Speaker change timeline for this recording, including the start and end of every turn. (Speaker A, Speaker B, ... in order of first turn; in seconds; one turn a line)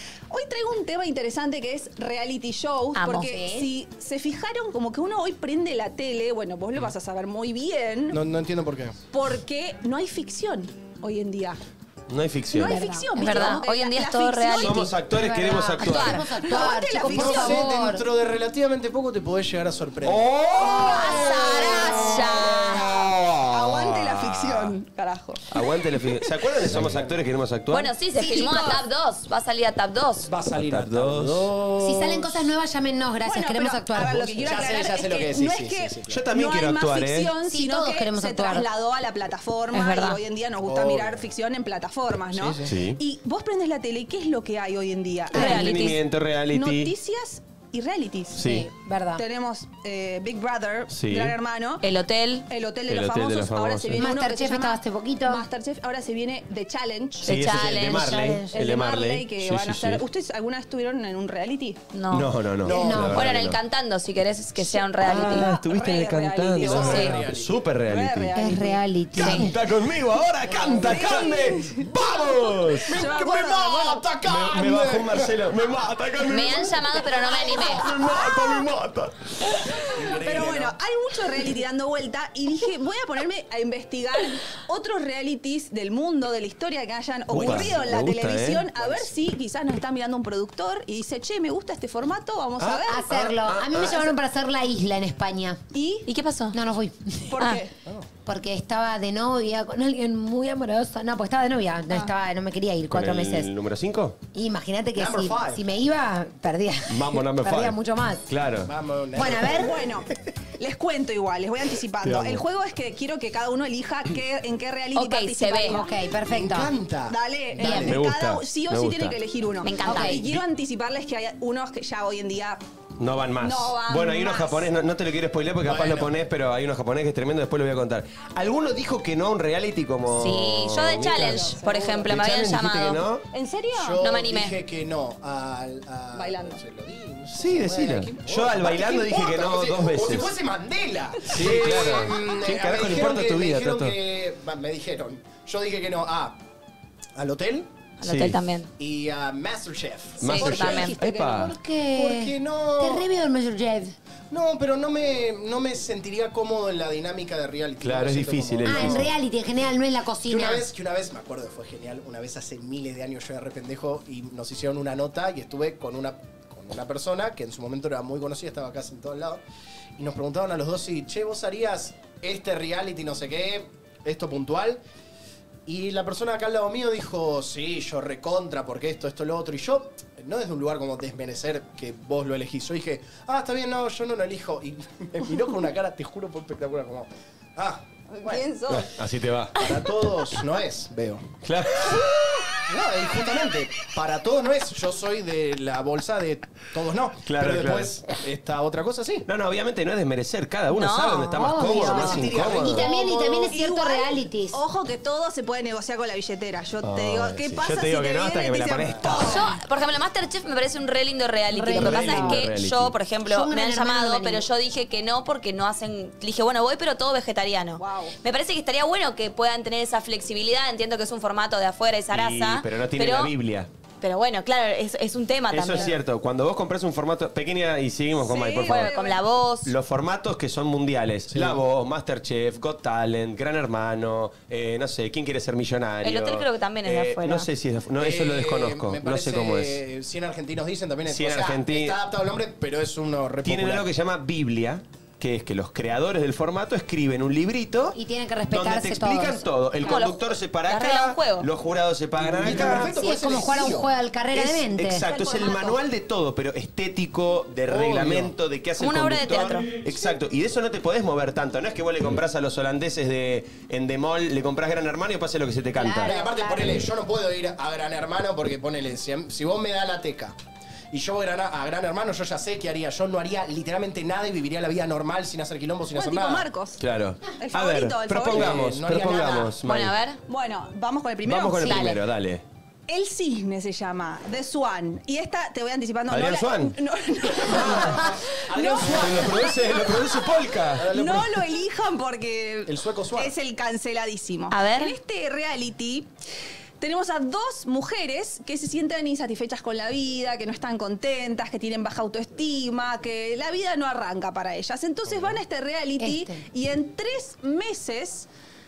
Speaker A: 0.3-8.2
Speaker B: 2.9-3.3
Speaker C: 3.2-3.7
Speaker D: 8.1-8.9
Speaker A: 9.1-11.6
Speaker E: 12.1-12.9
Speaker A: 12.5-14.9
Speaker B: 12.7-14.9
Speaker C: 12.7-13.2
Speaker E: 14.6-16.3
Speaker C: 15.1-18.0
Speaker B: 15.8-16.2
Speaker A: 16.4-17.7
Speaker D: 16.6-20.3
Speaker E: 20.0-24.7
Speaker C: 20.6-21.5
Speaker A: 20.7-25.4
Speaker B: 20.8-22.8
Speaker E: 25.5-27.9
Speaker D: 26.6-27.1
Speaker B: 27.7-30.3
Speaker A: 28.1-28.8
Speaker D: 30.2-32.5
Speaker E: 30.5-31.5
Speaker C: 31.8-34.4
Speaker A: 33.2-46.0
Speaker D: 34.4-36.2
Speaker E: 36.1-37.3
Speaker C: 37.4-38.6
Speaker B: 39.7-40.2
Speaker D: 40.6-41.3
Speaker D: 42.3-42.7
Speaker E: 42.4-43.0
Speaker B: 45.3-46.0
Speaker E: 45.3-46.9
Speaker A: 46.5-48.5
Speaker E: 48.3-48.7
Speaker C: 48.4-49.2
Speaker A: 49.1-51.8
Speaker E: 50.9-51.4
Speaker B: 51.8-52.5
Speaker A: 52.5-57.7
Speaker E: 52.9-54.1
Speaker C: 54.0-55.4
Speaker B: 57.2-58.1
Speaker E: 57.2-60.0
Speaker C: 58.0-58.5
Speaker A: 58.3-61.8
Speaker B: 61.9-62.3
Speaker E: 62.1-63.6
Speaker D: 62.6-63.2
Speaker C: 62.7-63.2
Speaker B: 63.1-65.6
Speaker A: 64.6-67.1
Speaker E: 65.1-68.4
Speaker D: 66.5-67.6
Speaker B: 66.8-67.2
Speaker A: 67.8-68.8
Speaker C: 68.3-69.4
Speaker E: 69.1-73.6
Speaker C: 70.5-70.9
Speaker A: 70.7-71.9
Speaker D: 72.0-72.3
Speaker D: 72.8-75.3
Speaker A: 72.9-74.1
Speaker E: 74.2-76.8
Speaker B: 76.2-77.9
Speaker E: 77.4-79.8
Speaker D: 79.9-80.8
Speaker A: 80.2-93.2
Speaker E: 87.3-88.7
Speaker D: 87.3-88.1
Speaker D: 88.7-89.2
Speaker E: 92.6-94.1
Speaker C: 92.8-95.6
Speaker A: 95.7-96.1
Speaker B: 96.1-96.5
Speaker C: 96.5-97.4
Speaker A: 97.3-97.7
Speaker C: 98.2-103.5
Speaker E: 102.9-104.2
Speaker C: 104.3-108.2
Speaker D: 105.0-105.6
Speaker E: 106.9-108.7
Speaker D: 108.7-109.8
Speaker C: 109.1-109.7
Speaker A: 109.5-116.0
Speaker E: 112.0-112.4
Speaker B: 114.9-115.8
Speaker C: 115.7-116.7
Speaker D: 116.2-118.1
Speaker A: 117.1-122.6
Speaker C: 117.6-117.9
Speaker E: 117.7-119.2
Speaker B: 119.6-120.3
Speaker C: 119.9-120.2
Speaker E: 123.0-133.2
Speaker A: 123.4-124.7
Speaker D: 125.6-126.1
Speaker B: 130.2-133.0
Speaker A: 131.0-132.1
Speaker A: 133.3-134.0
Speaker D: 133.7-146.4
Speaker B: 134.0-134.6
Speaker A: 136.1-136.6
Speaker E: 137.3-140.3
Speaker E: 141.3-143.9
Speaker A: 141.4-142.3
Speaker D: 147.2-147.7
Speaker B: 148.0-148.7
Speaker E: 148.0-148.4
Speaker D: 148.8-150.7
Speaker E: 150.2-151.6
Speaker B: 150.3-150.9
Speaker A: 150.3-151.1
Speaker C: 150.7-153.9
Speaker D: 151.9-153.0
Speaker D: 154.3-159.1
Speaker E: 157.8-159.1
Speaker C: 158.6-160.6
Speaker D: 160.3-169.4
Speaker D: 170.0-174.8
Speaker D: 175.7-188.7
Speaker A: 188.1-188.9
Speaker E: 188.7-189.5
Speaker D: 189.6-191.2
Speaker E: 191.4-192.4
Speaker D: 192.7-199.3
Speaker E: 197.2-197.9
Speaker E: 199.2-202.8
Speaker B: 200.7-201.7
Speaker C: 201.4-204.6
Speaker D: 201.9-202.9
Speaker A: 202.5-209.4
Speaker E: 206.8-209.4
Speaker D: 208.8-209.4
Speaker B: 209.2-223.3
Speaker C: 211.5-212.4
Speaker E: 211.7-212.9
Speaker C: 213.3-214.4
Speaker A: 217.8-218.1
Speaker E: 222.1-223.7
Speaker B: 224.0-225.9
Speaker E: 225.5-228.9
Speaker A: 228.2-229.2
Speaker B: 228.6-229.7
Speaker E: 229.6-239.8
Speaker D: 231.3-231.6
Speaker B: 236.0-237.5
Speaker D: 238.0-243.8
Speaker E: 241.1-241.9
Speaker E: 243.4-248.0
Speaker C: 247.9-249.4
Speaker E: 248.5-252.9
Speaker B: 249.8-251.5
Speaker D: 252.3-253.9
Speaker C: 252.6-255.0
Speaker E: 254.3-266.1
Speaker A: 255.0-255.8
Speaker D: 257.7-258.3
Speaker B: 258.8-259.7
Speaker C: 265.8-266.8
Speaker D: 266.0-270.4
Speaker D: 270.9-276.5
Speaker A: 275.9-278.6
Speaker E: 276.8-279.9
Speaker D: 278.2-279.6
Speaker B: 279.6-280.2
Speaker A: 280.3-282.0
Speaker E: 281.2-282.4
Speaker B: 281.6-281.9
Speaker A: 282.9-290.3
Speaker E: 286.1-286.8
Speaker E: 287.4-288.1
Speaker D: 287.4-289.6
Speaker E: 288.7-290.9
Speaker D: 290.8-291.5
Speaker A: 290.8-296.1
Speaker D: 292.6-293.3
Speaker B: 294.5-295.0
Speaker A: 296.8-308.3
Speaker D: 305.1-305.4
Speaker C: 306.0-306.4